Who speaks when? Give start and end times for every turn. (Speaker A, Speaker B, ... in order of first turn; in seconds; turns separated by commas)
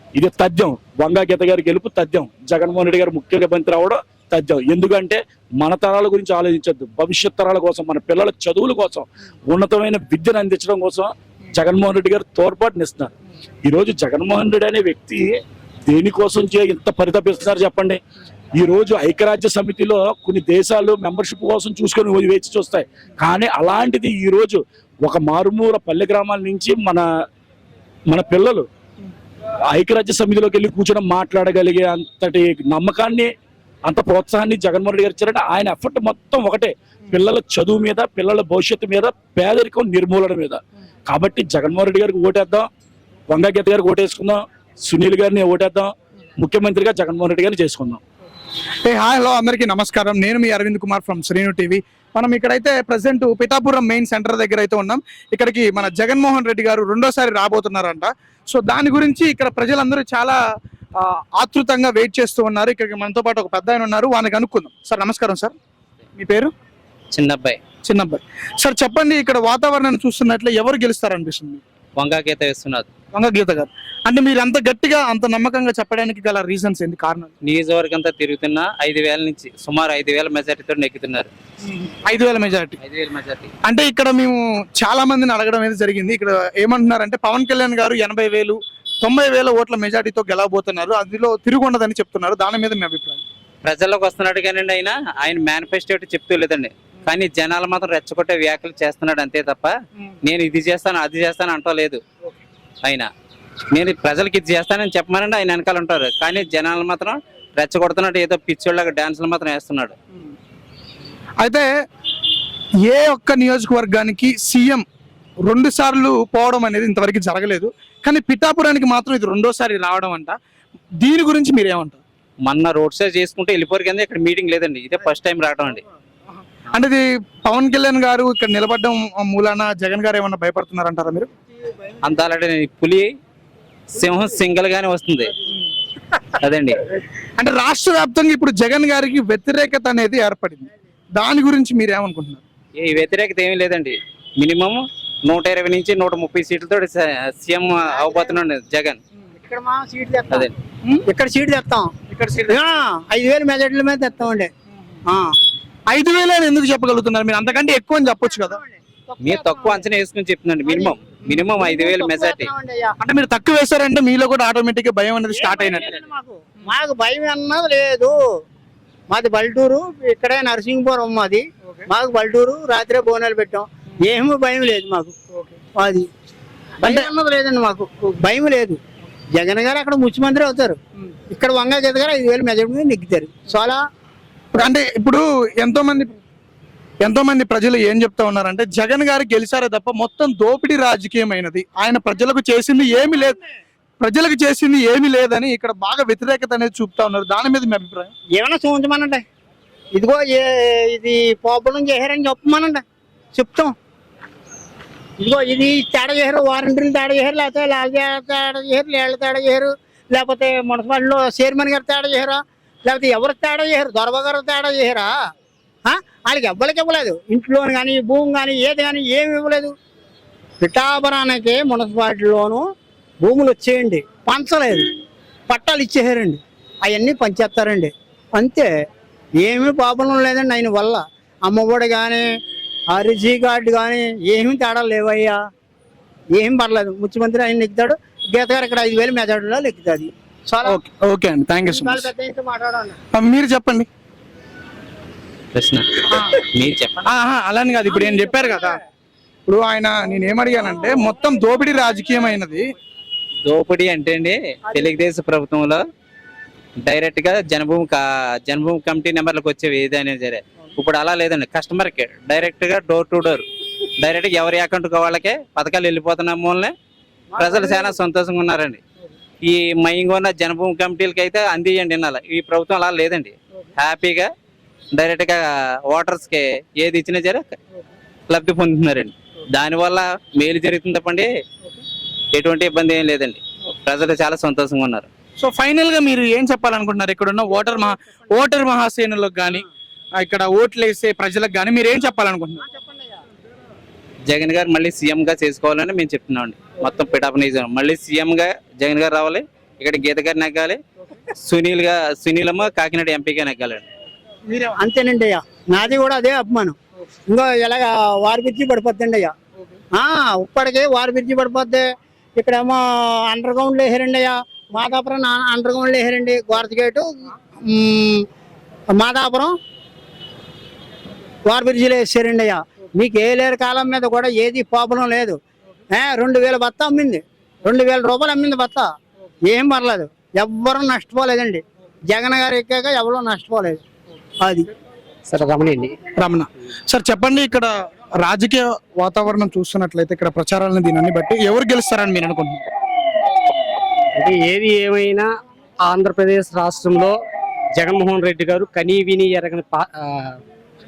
Speaker A: 0.2-13.1, Speaker A: 13.7-15.3, Speaker A: 15.9-18.0, Speaker A: 18.6-27.0, Speaker A: 28.1-28.7, Speaker A: 29.7-33.3, Speaker A: 33.9-42.7, Speaker A: 43.3-48.0, Speaker B: 48.8-60.4, Speaker B: 61.0-65.5, Speaker B: 66.2-66.5, Speaker C: 67.1-67.6, Speaker B: 67.8-71.6, Speaker C: 72.0-72.9, Speaker B: 73.1-77.3, Speaker C: 77.4-81.3, Speaker B: 81.7-82.8, Speaker C: 82.8-83.5, Speaker B: 83.7-93.2, Speaker C: 93.6-99.7, Speaker C: 100.2-102.0, Speaker C: 102.8-103.1, Speaker C: 103.7-110.0, Speaker B: 112.9-114.8, Speaker B: 115.5-120.4, Speaker B: 121.0-122.0, Speaker C: 122.4-125.8, Speaker B: 126.7-131.3, Speaker C: 132.0-133.1, Speaker C: 133.9-135.3, Speaker C: 136.4-136.8, Speaker B: 137.4-142.4, Speaker C: 142.8-149.0, Speaker D: 147.9-148.3, Speaker D: 149.4-150.5, Speaker D: 151.1-151.9, Speaker B: 152.1-152.6, Speaker D: 152.5-154.5, Speaker D: 155.1-155.3, Speaker B: 155.9-158.6, Speaker D: 158.3-159.9, Speaker C: 159.2-162.5, Speaker D: 160.7-163.0, Speaker B: 163.0-166.0, Speaker D: 165.3-168.2, Speaker D: 169.1-175.2, Speaker D: 175.8-176.1, Speaker D: 176.8-178.8, Speaker B: 176.8-177.1, Speaker D: 179.3-180.8, Speaker D: 181.3-183.8, Speaker B: 184.5-186.2, Speaker B: 187.0-193.4, Speaker B: 194.0-198.1, Speaker D: 198.3-199.2, Speaker D: 199.9-202.8, Speaker D: 203.3-203.7, Speaker D: 205.2-215.1, Speaker D: 215.8-219.7, Speaker D: 220.6-222.7, Speaker D: 223.2-224.9, Speaker D: 225.5-228.7, Speaker D: 229.4-232.3, Speaker D: 232.9-235.4, Speaker D: 236.3-240.8, Speaker B: 240.7-242.1, Speaker D: 241.7-243.0, Speaker B: 243.1-243.9, Speaker C: 245.5-246.0, Speaker C: 246.5-247.0, Speaker B: 247.0-248.8, Speaker B: 249.5-252.6, Speaker C: 253.5-255.8, Speaker C: 256.8-263.4, Speaker C: 264.0-266.7, Speaker D: 267.3-267.9, Speaker C: 267.4-268.8, Speaker C: 269.4-274.3, Speaker C: 274.9-277.6, Speaker C: 278.3-281.2, Speaker C: 282.3-285.1, Speaker B: 285.4-289.6, Speaker B: 290.2-292.6, Speaker C: 294.3-300.8, Speaker C: 301.4-303.8, Speaker D: 304.4-309.3, Speaker D: 309.9-311.8, Speaker D: 312.4-318.3, Speaker D: 318.9-319.6, Speaker D: 321.4-325.4, Speaker D: 325.9-328.9, Speaker D: 329.4-333.8, Speaker D: 334.4-334.6, Speaker E: 335.3-335.9, Speaker B: 336.2-337.7, Speaker B: 338.2-342.7, Speaker E: 344.2-345.3, Speaker E: 345.9-347.1, Speaker E: 347.8-350.4